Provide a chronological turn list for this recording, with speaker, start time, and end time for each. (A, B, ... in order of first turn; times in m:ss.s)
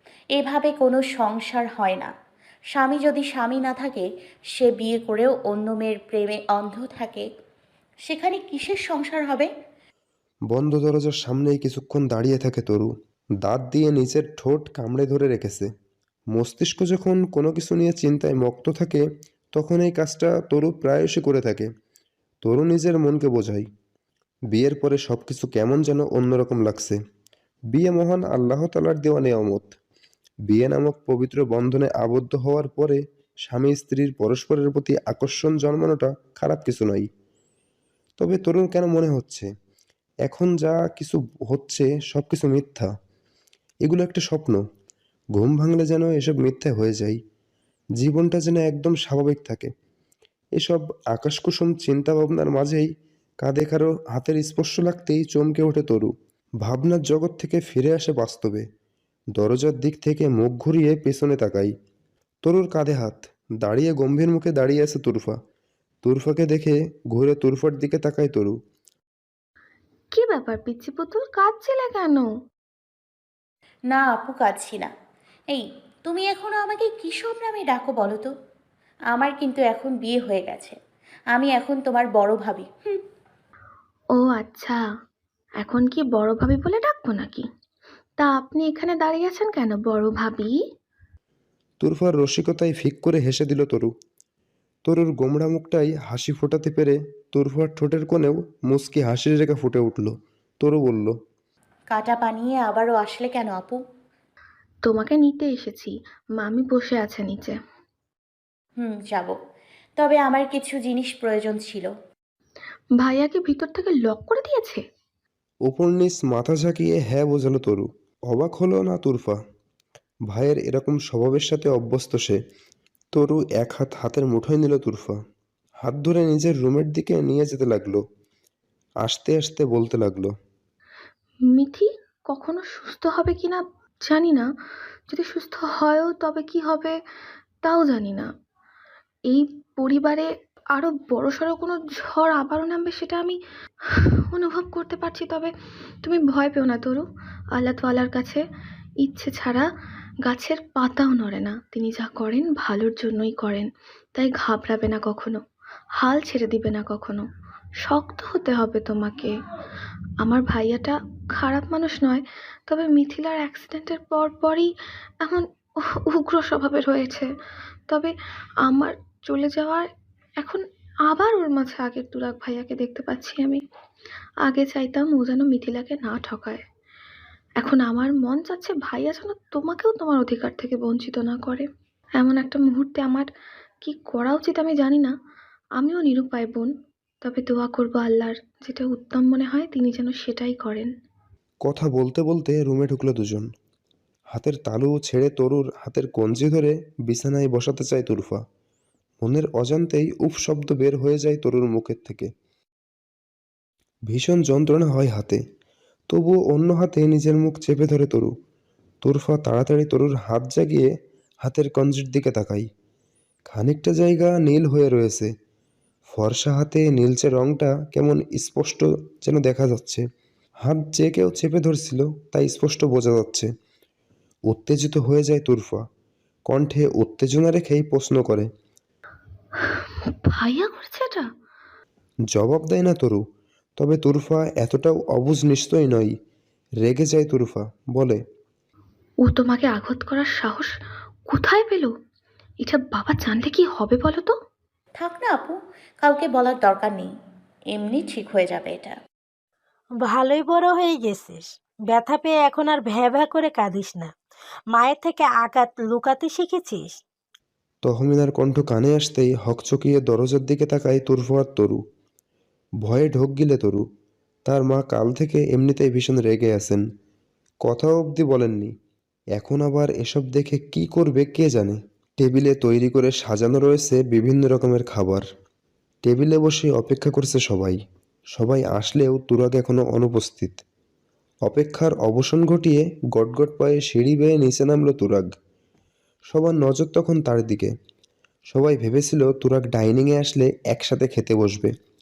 0:00.3-0:02.1 A
0:02.7-0:07.3 A
0:08.0-0:09.5 A
0:10.5-0:12.9 B
0:13.4-0:15.7 B
0:16.3-0:21.7 B
0:22.4-0:23.6 B
0:24.5-0:27.0 B
0:27.7-0:29.8 B
0:30.5-0:37.1 B
0:38.2-0:39.5 B
0:40.2-0:42.9 B
0:43.8-0:44.6 B
0:45.3-0:47.2 B
0:48.0-0:49.7 B
0:50.6-0:52.9 B
0:53.4-0:56.1 B
0:56.6-0:58.6 B
0:59.4-1:01.7 B
1:02.4-1:05.4 B
1:06.0-1:08.5 B
1:10.2-1:12.2 C
1:13.9-1:14.9 A
1:15.5-1:18.3 A
1:19.1-1:20.8 A
1:21.3-1:23.0 A
1:24.2-1:24.8 C
1:25.6-1:27.4 C
1:28.2-1:30.5 C
1:31.8-1:33.9 B
1:34.8-1:41.1 B
1:41.9-1:43.8 A
1:44.9-1:45.9 C
1:46.4-1:47.5 C
1:48.8-1:49.4 A
1:50.0-1:51.9 A
1:53.0-1:54.8 C
1:55.6-1:59.4 B
2:00.3-2:02.4 B
2:03.1-2:05.1 B
2:05.8-2:08.0 B
2:09.0-2:10.3 B
2:12.3-2:13.6 C
2:14.1-2:14.4 C
2:15.1-2:16.9 C
2:17.7-2:18.2 C
2:19.4-2:20.2 C
2:20.8-2:23.3 C
2:24.4-2:25.5 C
2:26.1-2:27.0 C
2:27.6-2:28.4 C
2:29.1-2:29.6 C
2:30.3-2:33.6 C
2:34.2-2:35.3 C
2:36.1-2:37.2 C
2:37.9-2:39.3 C
2:40.3-2:40.9 C
2:41.4-2:42.2 C
2:42.7-2:44.6 C
2:46.2-2:47.2 C
2:48.7-2:49.8 C
2:51.1-2:53.6 C
2:54.5-2:56.6 C
2:57.6-3:01.6 C
3:02.2-3:03.2 C
3:03.8-3:05.1 C
3:05.8-3:06.7 C
3:07.2-3:10.8 C
3:11.6-3:13.5 B
3:14.3-3:18.4 B
3:19.2-3:22.3 B
3:24.1-3:25.4 B
3:26.1-3:28.3 B
3:29.0-3:30.9 B
3:31.4-3:32.6 B
3:33.5-3:35.3 B
3:36.1-3:40.0 B
3:40.6-3:43.5 B
3:44.5-3:45.8 B
3:46.5-3:48.5 B
3:50.4-3:51.2 C
3:52.3-3:53.2 B
3:53.8-3:56.1 B
3:56.8-3:58.2 B
3:59.3-4:00.7 C
4:01.3-4:01.9 C
4:02.6-4:04.3 C
4:05.0-4:07.1 A
4:07.7-4:09.0 A
4:10.0-4:14.1 D
4:14.7-4:17.0 D
4:17.8-4:21.8 B
4:22.8-4:23.8 B
4:24.5-4:26.8 B
4:27.6-4:28.7 B
4:29.4-4:35.2 B
4:36.0-4:37.8 B
4:38.3-4:40.6 B
4:41.4-4:45.2 B
4:46.3-4:47.7 B
4:48.5-4:51.7 B